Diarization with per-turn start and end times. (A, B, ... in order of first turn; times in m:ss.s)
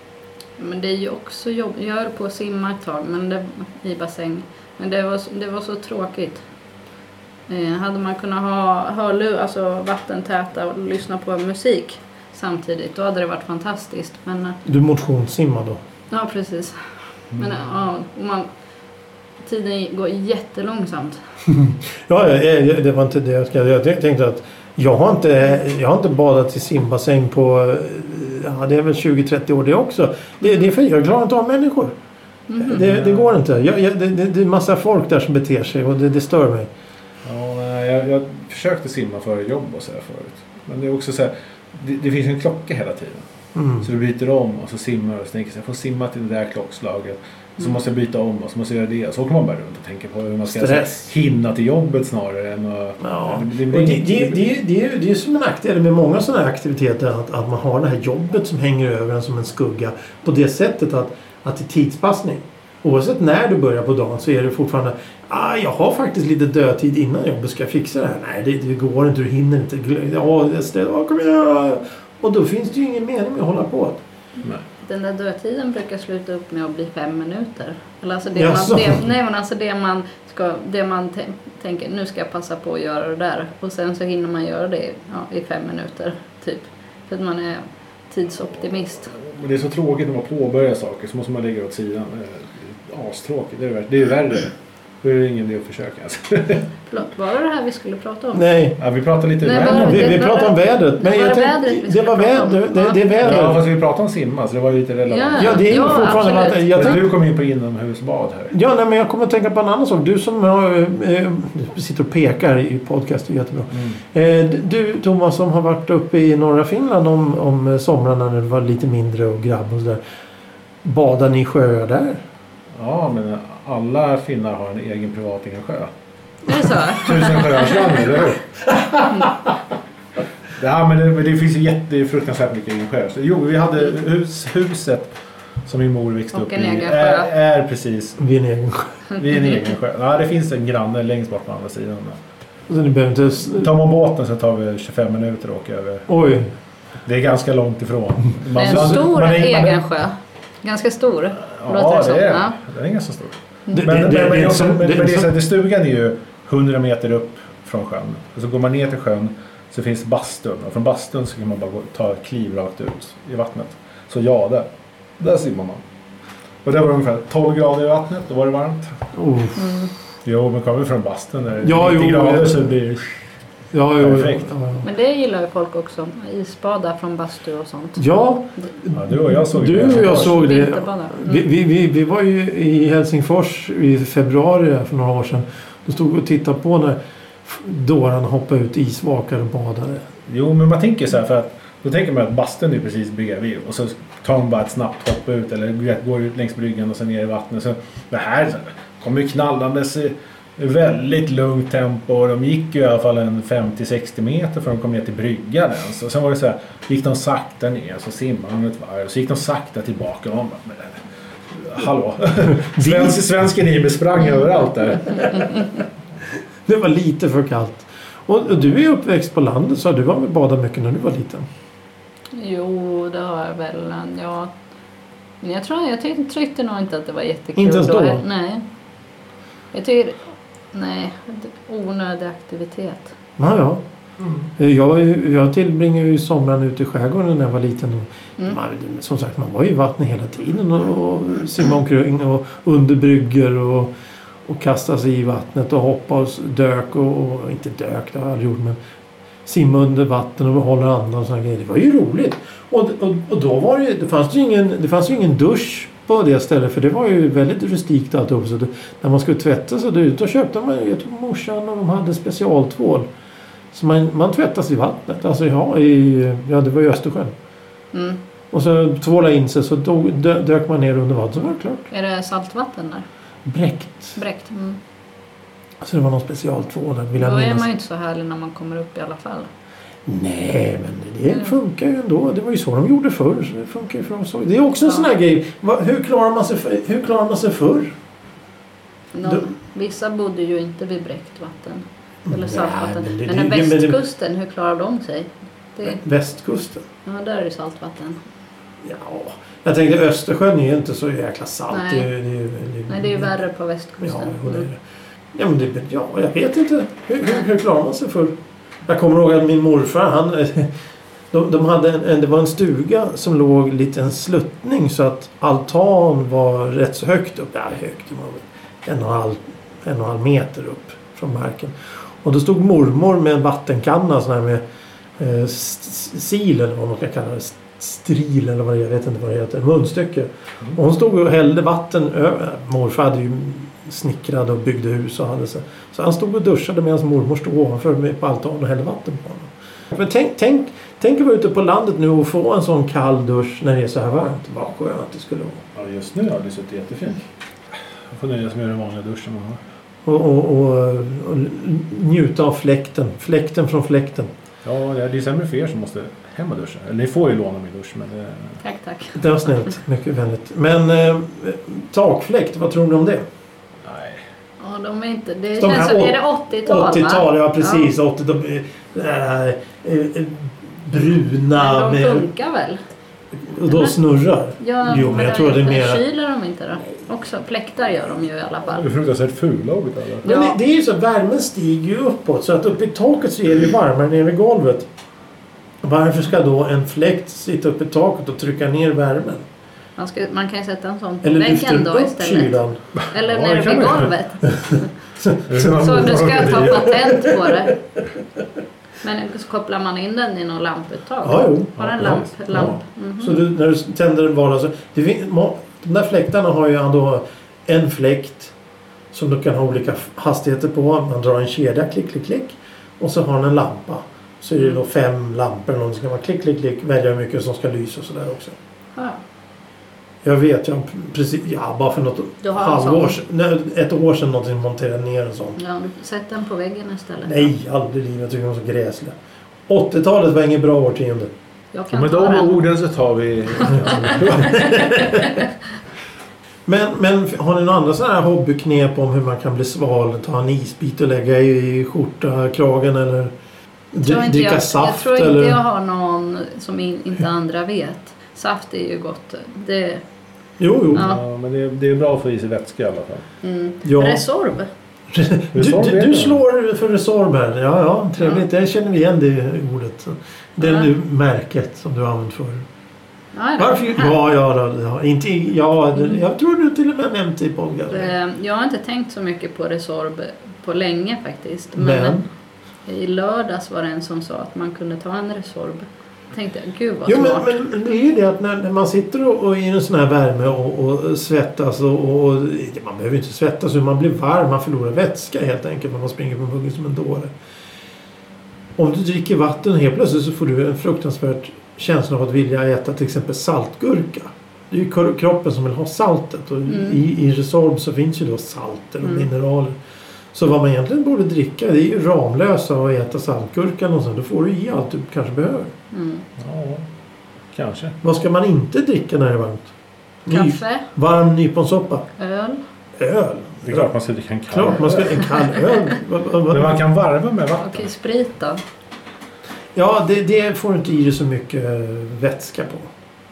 0:00.6-0:06.4 A
0:07.5-0:14.6 A
0:14.7-0:15.8 B
0:16.1-0:16.8 A
0:17.3-0:18.5 A
0:19.4-0:21.2 A
0:21.5-0:31.9 B
0:32.5-0:32.8 A
0:32.6-0:36.7 B
0:32.7-0:33.4 C
0:37.2-0:43.2 C
0:43.6-0:43.9 B
0:43.8-0:54.4 C
0:50.5-0:51.0 B
0:53.0-1:14.0 B
1:14.8-1:29.1 A
1:18.4-1:19.0 B
1:29.1-1:36.7 C
1:36.9-1:38.4 A
1:38.3-1:38.8 B
1:38.8-1:40.2 C
1:39.4-1:43.0 A
1:39.5-1:43.6 B
1:43.2-1:48.5 C
1:45.1-1:47.0 A
1:45.4-1:47.0 B
1:48.5-2:00.0 B
2:00.8-2:02.2 B
2:02.8-2:05.9 C
2:06.5-2:07.8 A
2:06.9-2:08.6 C
2:08.8-2:09.1 B
2:10.6-2:15.1 C
2:15.6-2:18.2 C
2:16.3-2:17.3 A
2:18.2-2:18.9 B
2:19.2-2:22.2 C
2:22.7-2:23.7 B
2:23.5-2:26.1 C
2:26.1-2:26.5 B
2:27.0-2:29.8 C
2:28.6-2:32.6 A
2:31.4-2:44.7 C
2:33.7-2:35.3 B
2:45.2-2:45.8 C
2:46.6-2:49.0 C
2:49.2-2:49.7 B
2:49.6-2:49.9 A
2:50.2-2:53.1 C
2:51.6-2:52.7 B
2:53.7-2:54.8 B
2:54.0-2:54.5 C
2:54.8-2:58.0 A
2:58.0-3:10.0 B
2:58.9-3:00.4 C
2:59.8-3:01.4 A
3:10.3-3:35.3 C
3:32.7-3:33.2 B
3:35.4-3:35.8 A
3:36.7-3:41.5 B
3:42.3-3:44.5 A
3:45.4-3:48.6 A
3:47.6-3:48.2 B
3:49.7-3:50.2 A
3:50.7-3:53.1 A
3:53.4-3:53.8 B
3:54.6-4:03.9 B
4:04.5-4:08.8 B
4:09.5-4:23.1 B
4:23.7-4:27.3 B
4:27.9-4:28.2 A
4:28.5-4:31.8 B
4:31.9-4:33.0 A
4:33.5-4:34.2 B
4:34.2-4:34.8 A
4:35.8-4:37.7 B
4:37.2-4:39.5 A
4:40.1-4:47.9 B
4:41.3-4:41.6 A
4:44.8-4:45.1 A
4:49.1-4:56.0 A
4:52.3-4:54.0 B
4:55.8-4:56.8 B
4:57.0-4:58.2 A
4:58.8-5:03.3 B
5:01.7-5:02.1 A
5:02.9-5:04.7 A
5:04.0-5:04.8 B
5:05.3-5:08.4 B
5:08.9-5:10.7 B
5:11.3-5:24.6 B
5:25.2-5:45.6 B
5:45.8-5:49.6 C
5:50.0-5:54.3 B
5:54.6-5:58.6 C
5:58.6-5:59.2 A
5:59.2-6:03.2 B
6:03.8-6:04.2 C
6:04.6-6:07.9 A
6:05.6-6:12.2 B
6:11.6-6:12.8 A
6:13.5-6:16.0 B
6:13.7-6:13.9 A
6:14.6-6:18.9 A
6:18.8-6:20.3 C
6:20.2-6:20.6 A
6:20.2-6:24.9 B
6:25.8-6:29.4 B
6:30.0-6:32.6 A
6:31.2-6:32.8 B
6:33.0-6:34.1 C
6:33.1-6:34.9 A
6:34.5-6:37.6 B
6:35.5-6:36.9 C
6:35.6-6:37.8 A
6:39.0-6:43.4 A
6:41.2-6:48.5 B
6:41.8-6:42.8 C
6:49.1-6:58.6 B
6:54.6-6:54.8 A
7:00.2-7:05.6 B
7:02.4-7:03.2 A
7:05.6-7:07.5 A
7:07.2-7:09.2 B
7:09.7-7:11.3 B
7:11.7-7:12.6 A
7:11.9-7:14.7 C
7:13.7-7:15.5 A
7:14.3-7:15.4 B
7:16.7-7:23.3 B
7:23.9-7:25.6 B
7:24.0-7:30.0 A
7:30.6-7:31.1 B
7:30.9-7:33.2 C
7:30.9-7:31.2 A
7:33.4-7:34.7 A
7:33.8-7:34.2 B
7:35.1-7:42.6 B
7:35.5-7:36.4 C
7:40.6-7:40.9 A
7:43.4-7:44.2 A
7:43.6-7:48.1 B
7:47.9-7:52.2 A
7:51.8-7:52.2 B
7:52.9-7:57.5 A
7:57.1-8:07.3 B
8:08.8-8:19.8 B
8:16.7-8:17.0 A
8:19.0-8:19.3 A
8:20.3-8:25.7 B
8:25.9-8:26.2 A
8:26.4-8:26.9 C
8:27.5-8:28.0 C
8:28.0-8:29.7 B
8:30.3-8:32.1 B
8:30.3-8:30.9 A
8:32.2-8:32.6 A
8:33.0-8:33.9 B
8:33.6-8:35.2 C
8:34.5-8:36.8 B
8:35.2-8:35.8 A
8:36.5-8:37.9 C
8:37.6-8:38.6 A
8:39.8-8:42.9 B